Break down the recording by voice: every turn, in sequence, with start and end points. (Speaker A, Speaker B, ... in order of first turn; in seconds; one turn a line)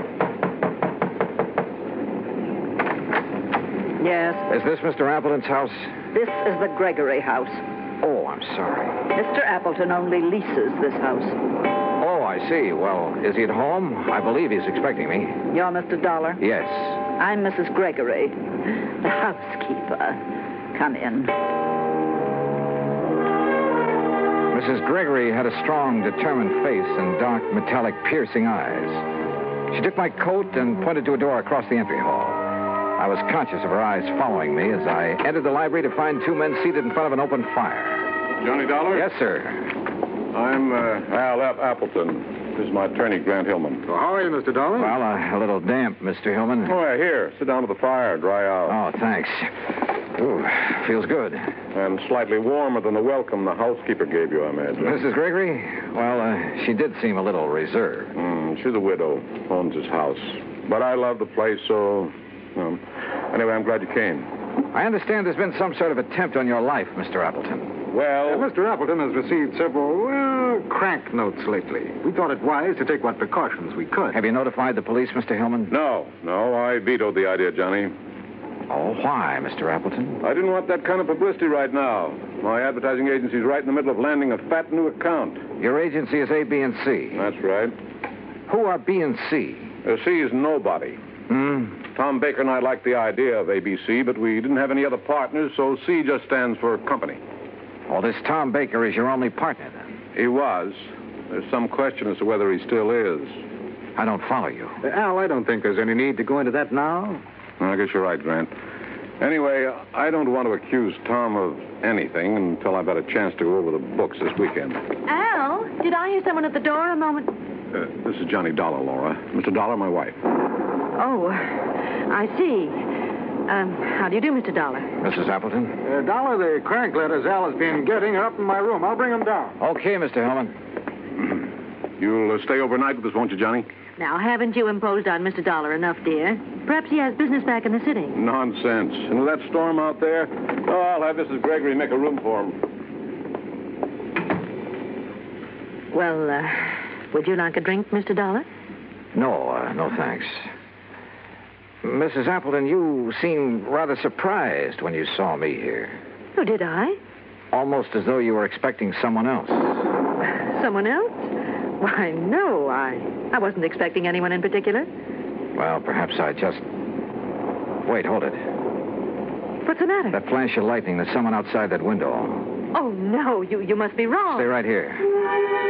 Speaker A: 4.0-4.4
Speaker B: 4.5-6.0
Speaker A: 6.1-7.6
Speaker B: 8.0-9.0
Speaker A: 9.1-11.3
Speaker B: 12.0-15.4
Speaker A: 15.5-16.4
Speaker B: 16.4-17.0
Speaker A: 17.1-18.4
Speaker A: 19.0-20.2
Speaker A: 20.7-21.3
Speaker B: 24.5-29.1
Speaker B: 29.7-32.5
Speaker B: 33.0-38.1
Speaker C: 38.4-39.1
Speaker B: 38.9-39.7
Speaker C: 40.3-43.9
Speaker D: 43.9-45.0
Speaker B: 44.8-46.7
Speaker C: 46.6-48.8
Speaker B: 48.7-51.5
Speaker C: 51.7-55.0
Speaker B: 54.8-58.1
Speaker C: 58.1-64.3
Speaker B: 64.7-67.7
Speaker C: 67.9-68.5
Speaker D: 68.2-74.2
Speaker B: 74.1-75.7
Speaker C: 75.7-77.9
Speaker B: 78.7-80.2
Speaker C: 80.2-85.4
Speaker B: 85.6-87.2
Speaker C: 87.2-87.7
Speaker B: 88.5-89.7
Speaker C: 89.8-91.0
Speaker B: 91.3-91.8
Speaker C: 91.9-97.2
Speaker B: 97.9-99.9
Speaker C: 100.1-103.4
Speaker B: 104.0-104.8
Speaker D: 104.8-107.2
Speaker C: 107.6-108.5
Speaker C: 109.2-114.8
Speaker E: 115.1-117.3
Speaker C: 117.7-120.2
Speaker E: 121.0-122.8
Speaker E: 123.5-124.9
Speaker B: 125.0-125.8
Speaker D: 125.8-129.6
Speaker B: 129.6-130.5
Speaker C: 132.0-133.7
Speaker E: 134.0-138.1
Speaker C: 138.1-142.6
Speaker E: 145.9-148.5
Speaker B: 149.1-150.5
Speaker B: 151.8-156.0
Speaker E: 156.3-157.0
Speaker B: 157.5-159.8
Speaker E: 160.5-164.9
Speaker B: 165.5-166.6
Speaker B: 167.8-168.4
Speaker E: 169.6-170.2
Speaker B: 170.1-172.5
Speaker E: 172.7-174.5
Speaker B: 174.3-175.1